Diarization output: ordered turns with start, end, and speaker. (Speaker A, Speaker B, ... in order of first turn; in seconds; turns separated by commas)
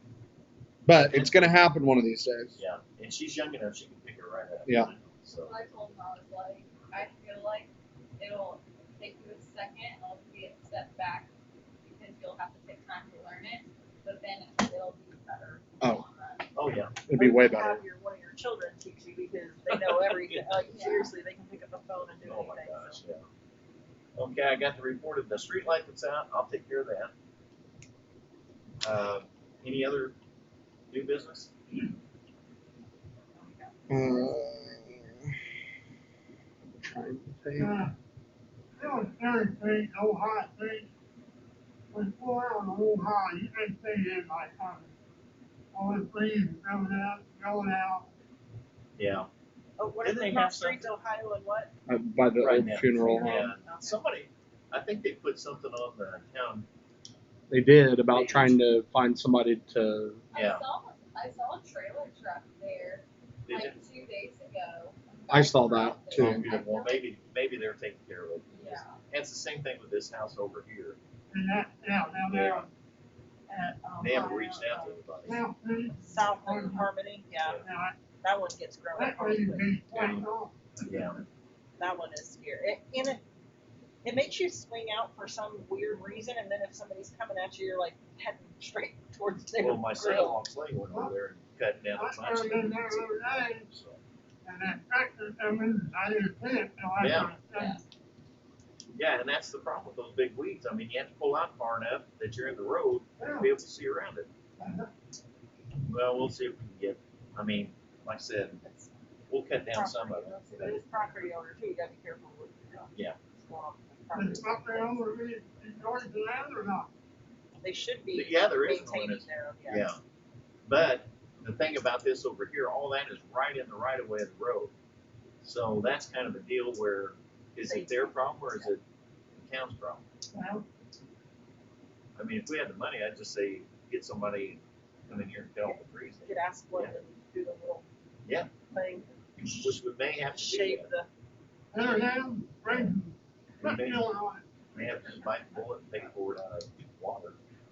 Speaker A: 0.8-2.6, Speaker B: 0.9-1.4, Speaker B: 2.5-5.5, Speaker C: 5.4-11.3, Speaker C: 11.8-16.5, Speaker B: 16.5-17.0, Speaker A: 17.1-17.8, Speaker D: 17.1-23.0, Speaker B: 19.7-20.4, Speaker C: 20.7-21.1, Speaker B: 22.2-23.2, Speaker B: 24.1-27.1, Speaker B: 28.8-30.1, Speaker B: 30.9-31.5, Speaker D: 33.4-35.1, Speaker A: 33.9-35.4, Speaker A: 36.8-37.8, Speaker E: 37.6-37.9, Speaker E: 38.8-40.9, Speaker E: 41.9-44.9, Speaker E: 45.7-48.1, Speaker B: 49.0-49.3, Speaker D: 49.8-51.7, Speaker B: 50.0-50.9, Speaker A: 51.9-53.5, Speaker B: 52.4-56.7, Speaker D: 53.0-54.0, Speaker A: 57.5-60.2, Speaker B: 58.1-58.6, Speaker C: 60.3-67.0, Speaker B: 60.3-60.6, Speaker B: 63.5-63.8, Speaker A: 65.3-66.6, Speaker B: 66.1-71.0, Speaker C: 68.5-69.0, Speaker E: 71.3-72.7, Speaker B: 72.2-72.7, Speaker D: 73.5-75.3, Speaker B: 74.0-75.4, Speaker E: 75.2-76.9, Speaker D: 76.0-80.2, Speaker B: 77.4-77.6, Speaker E: 77.6-78.0, Speaker E: 78.9-80.5, Speaker B: 80.8-81.2, Speaker D: 81.8-83.2, Speaker D: 84.0-90.4, Speaker B: 89.6-94.0, Speaker E: 91.9-93.7, Speaker E: 94.4-97.8, Speaker B: 97.0-97.3, Speaker C: 97.5-97.8, Speaker B: 98.9-104.3, Speaker E: 103.2-103.5, Speaker E: 104.6-104.9, Speaker B: 105.8-108.6, Speaker D: 108.6-108.9, Speaker B: 109.3-110.8, Speaker D: 109.7-115.1, Speaker E: 114.1-116.9, Speaker D: 117.6-120.0, Speaker B: 118.1-120.0, Speaker B: 120.7-124.7, Speaker B: 125.4-128.8, Speaker D: 127.6-128.7, Speaker B: 129.3-130.0, Speaker E: 130.3-130.6, Speaker B: 132.2-136.9, Speaker D: 135.7-137.8, Speaker B: 138.2-138.5, Speaker D: 138.7-139.1, Speaker B: 139.4-140.9, Speaker D: 140.3-141.1, Speaker E: 141.7-144.4, Speaker B: 142.7-142.9, Speaker B: 143.6-144.1, Speaker B: 144.7-147.4